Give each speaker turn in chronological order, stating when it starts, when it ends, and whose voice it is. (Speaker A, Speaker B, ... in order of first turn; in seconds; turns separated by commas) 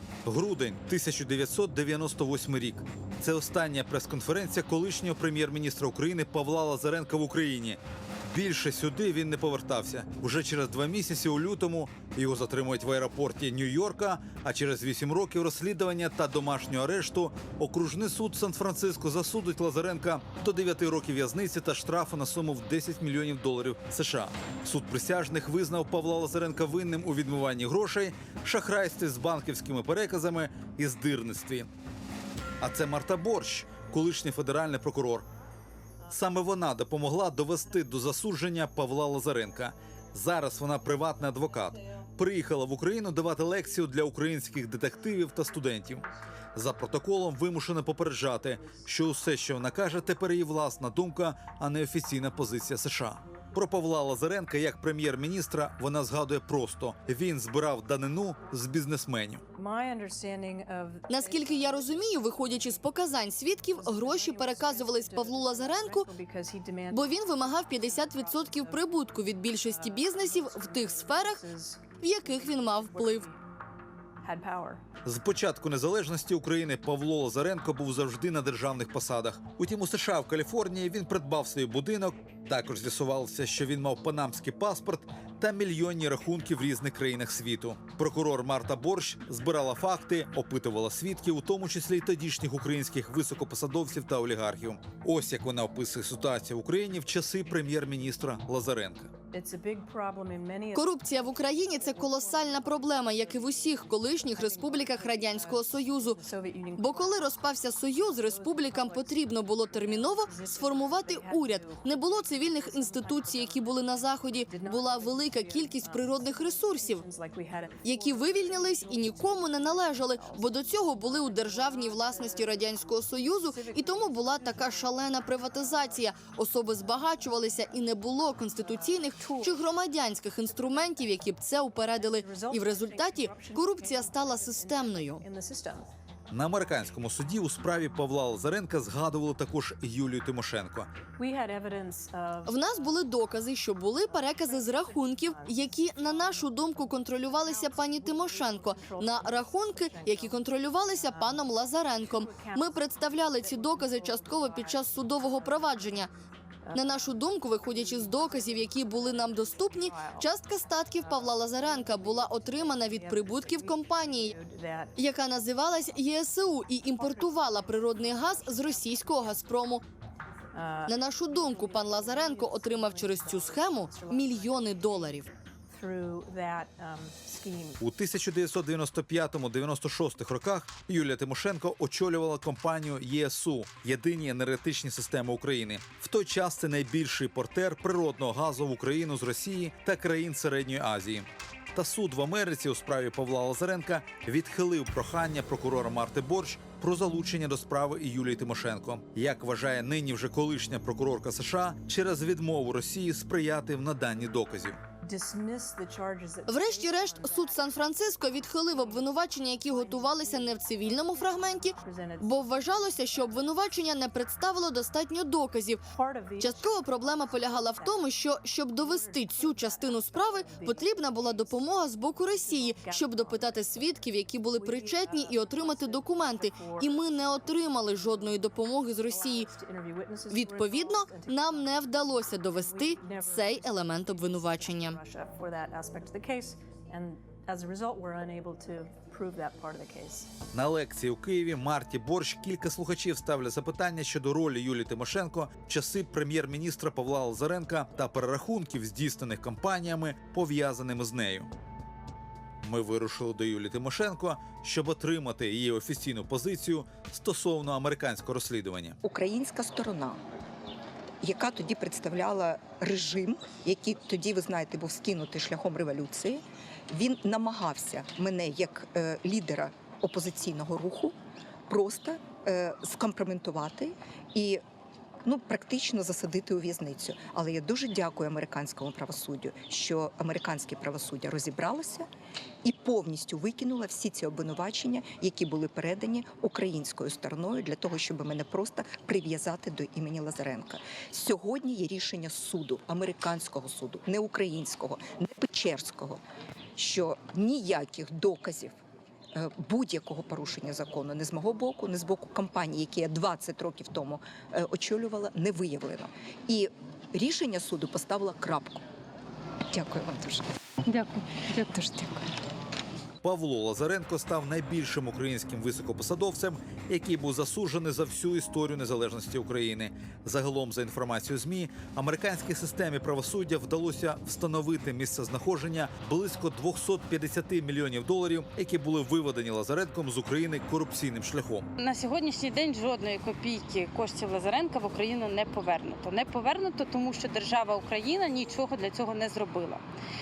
Speaker A: 0.3-31.7, Speaker A: 32.6-35.3, Speaker A: 36.1-59.4, Speaker B: 59.5-62.9, Speaker C: 61.1-66.1, Speaker B: 63.7-73.4, Speaker C: 66.9-71.4, Speaker C: 72.0-73.3, Speaker B: 74.2-74.8, Speaker A: 75.0-99.1, Speaker B: 99.3-126.1, Speaker C: 100.7-106.2, Speaker C: 106.8-117.0, Speaker C: 117.8-135.2, Speaker B: 128.5-129.7, Speaker B: 130.4-135.9, Speaker A: 136.3-140.9, Speaker B: 141.1-143.0, Speaker C: 142.4-156.1, Speaker B: 144.0-156.1, Speaker B: 156.6-165.1, Speaker C: 156.7-164.3, Speaker C: 165.0-169.8, Speaker B: 166.9-169.6, Speaker B: 170.5-177.8, Speaker C: 170.9-175.3, Speaker A: 177.8-204.8, Speaker B: 205.0-213.5, Speaker C: 206.5-215.8, Speaker B: 215.8-218.2, Speaker C: 216.4-229.5, Speaker B: 218.7-223.9, Speaker B: 224.5-227.0, Speaker B: 229.1-231.8, Speaker C: 230.3-235.0, Speaker B: 232.5-240.3, Speaker A: 240.5-251.5, Speaker A: 252.6-259.0, Speaker D: 259.0-260.2, Speaker D: 261.2-271.1, Speaker D: 271.7-274.6, Speaker D: 275.2-282.1, Speaker D: 282.6-296.2, Speaker D: 296.8-298.8, Speaker D: 299.3-308.8, Speaker D: 309.7-310.5, Speaker E: 310.9-312.2, Speaker A: 313.2-331.7, Speaker E: 331.8-339.8